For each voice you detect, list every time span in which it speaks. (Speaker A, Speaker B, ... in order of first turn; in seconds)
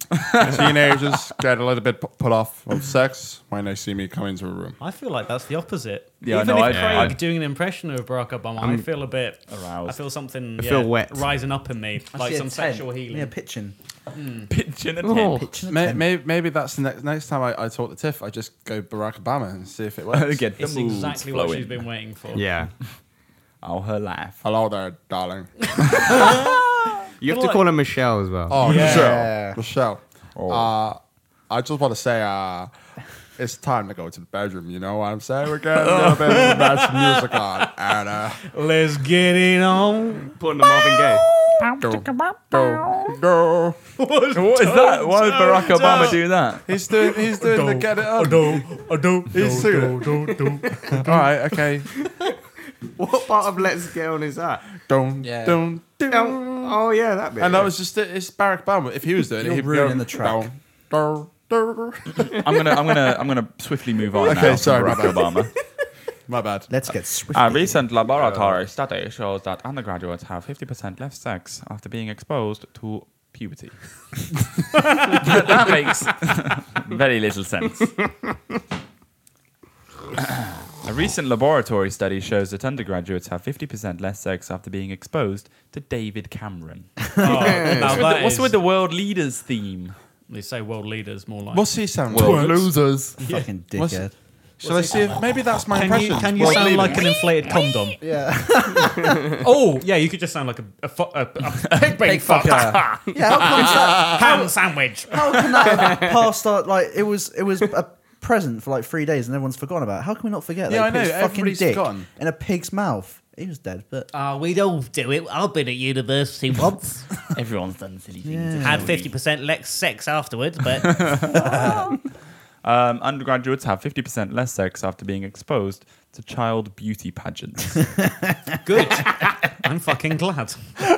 Speaker A: 0.2-0.8, 6.2-7.2, 9.5-10.0, 14.5-15.5, 20.1-21.8, 23.6-24.4, 28.7-29.4, 30.3-30.7, 41.6-43.1, 44.4-46.7, 62.3-65.5, 67.3-77.9, 80.2-90.0, 92.1-93.0, 102.6-103.0, 117.3-119.1, 120.8-121.8, 122.6-128.0
Speaker B: 0.4-4.8, 15.7-20.5, 24.4-26.3, 28.5-32.7, 33.4-38.5, 41.8-43.8, 46.6-48.6, 49.3-50.2, 50.9-51.9, 54.9-56.7, 57.4-62.4, 64.2-65.4, 66.3-66.7, 91.5-93.2, 93.8-94.1, 94.6-97.2, 110.7-112.1
Speaker C: 4.8-13.3, 14.1-14.5, 20.6-22.4, 26.1-26.5, 27.2-27.6, 28.6-29.1, 36.1-37.4, 38.5-41.1, 44.0-46.2, 47.0-51.2, 87.2-88.6, 90.3-92.6, 93.2-93.5, 94.6-98.0, 99.3-105.5, 114.1-117.0, 118.6-121.0, 128.6-130.8
Speaker D: 6.7-7.2, 8.6-8.8, 10.6-11.3, 15.0-15.4, 22.3-22.7, 27.2-28.6, 35.8-36.6, 40.4-41.2, 52.0-52.3, 52.8-54.8, 56.1-57.7, 68.2-68.6, 87.3-88.0, 105.8-106.1
Speaker E: 12.1-13.8, 15.3-16.1, 28.6-29.6, 55.2-55.6, 59.4-60.5, 66.7-67.8, 93.2-94.1, 98.0-99.3, 102.0-104.5, 105.1-114.1, 118.2-119.0, 121.3-121.8